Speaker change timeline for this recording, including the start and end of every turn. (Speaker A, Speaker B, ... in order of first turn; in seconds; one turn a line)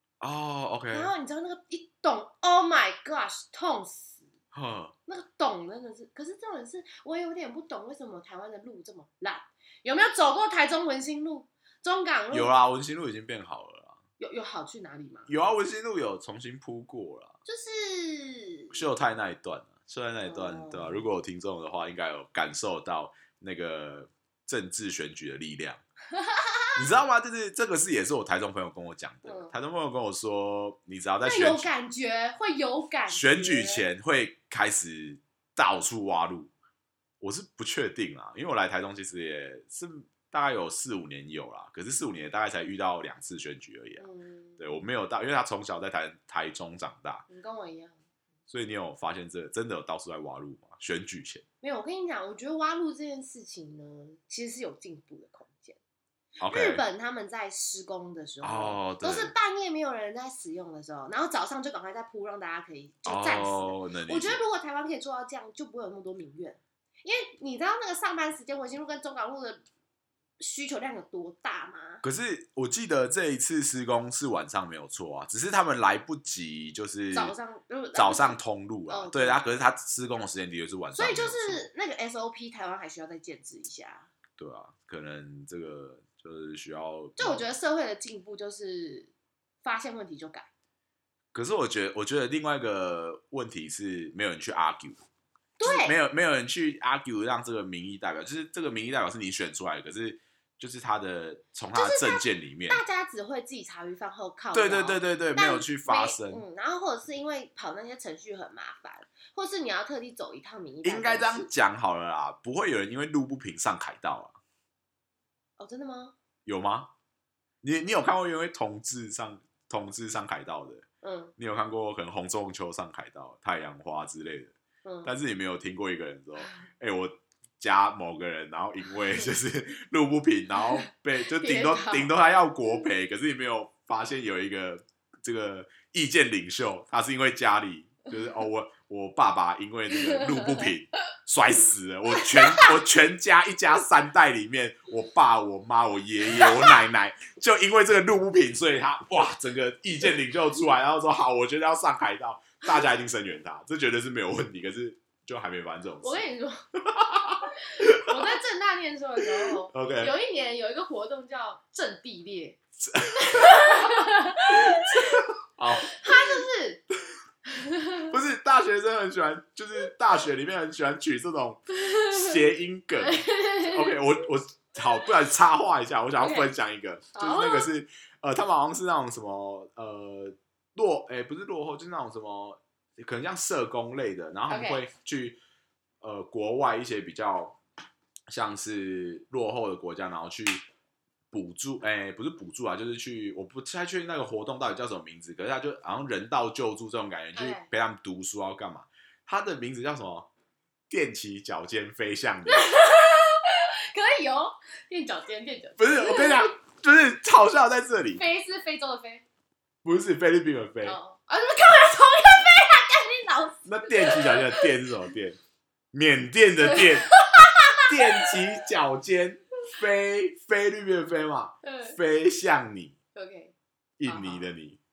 Speaker A: 0.2-1.1
Speaker B: 0.9-4.3
Speaker A: 4.5-5.0
Speaker B: 5.1-12.5
Speaker A: 12.3-14.0
Speaker B: 14.2-15.3
Speaker A: 15.3-17.4
Speaker B: 17.5-18.8
Speaker A: 18.7-25.8
Speaker B: 20.2-21.1
Speaker B: 26.1-26.8
Speaker A: 26.8-31.7
Speaker B: 29.2-29.5
Speaker B: 31.2-33.9
Speaker A: 33.1-36.5
Speaker A: 37.2-44.0
Speaker B: 44.0-44.6
Speaker A: 44.6-47.2
Speaker B: 47.3-48.0
Speaker A: 48.5-51.4
Speaker B: 51.6-55.8
Speaker A: 56.4-56.8
Speaker B: 56.5-69.6
Speaker A: 58.4-59.3
Speaker A: 63.0-64.4
Speaker B: 70.4-72.0
Speaker A: 72.0-77.3
Speaker B: 77.1-79.4
Speaker A: 78.0-81.7
Speaker B: 81.0-84.1
Speaker A: 84.4-87.5
Speaker B: 87.2-89.1
Speaker B: 89.6-90.5
Speaker A: 91.3-95.0
Speaker B: 95.6-96.0
Speaker A: 95.6-102.8
Speaker B: 101.7-111.5
Speaker A: 104.5-106.4
Speaker A: 110.8-114.4
Speaker B: 115.6-116.2
Speaker A: 116.5-116.9
Speaker A: 117.6-120.8
Speaker B: 121.0-121.3
Speaker A: 121.4-124.5
Speaker B: 124.8-125.1
Speaker A: 125.0-156.2
Speaker B: 131.3-132.2
Speaker B: 140.1-140.6
Speaker B: 142.2-142.8
Speaker B: 146.3-146.8
Speaker B: 156.0-156.6
Speaker A: 156.8-158.3
Speaker B: 157.6-162.6
Speaker A: 159.2-160.1
Speaker A: 162.8-166.5
Speaker B: 163.1-165.2
Speaker B: 165.8-166.8
Speaker B: 167.5-168.1
Speaker A: 168.0-185.4
Speaker B: 171.7-172.4
Speaker B: 173.0-174.0
Speaker B: 176.2-176.5
Speaker B: 177.1-177.7
Speaker B: 184.5-184.9
Speaker A: 186.0-187.6
Speaker A: 188.3-190.6
Speaker A: 191.3-200.3
Speaker B: 197.3-197.7
Speaker A: 200.9-202.7
Speaker B: 202.5-206.5
Speaker A: 205.8-208.2
Speaker B: 208.2-209.2
Speaker A: 209.8-211.0
Speaker B: 210.8-214.7
Speaker A: 213.7-215.4
Speaker A: 215.9-217.2
Speaker B: 216.7-218.4
Speaker A: 217.8-222.9
Speaker B: 221.6-222.0
Speaker B: 223.2-223.5
Speaker A: 224.0-224.8
Speaker B: 224.1-224.5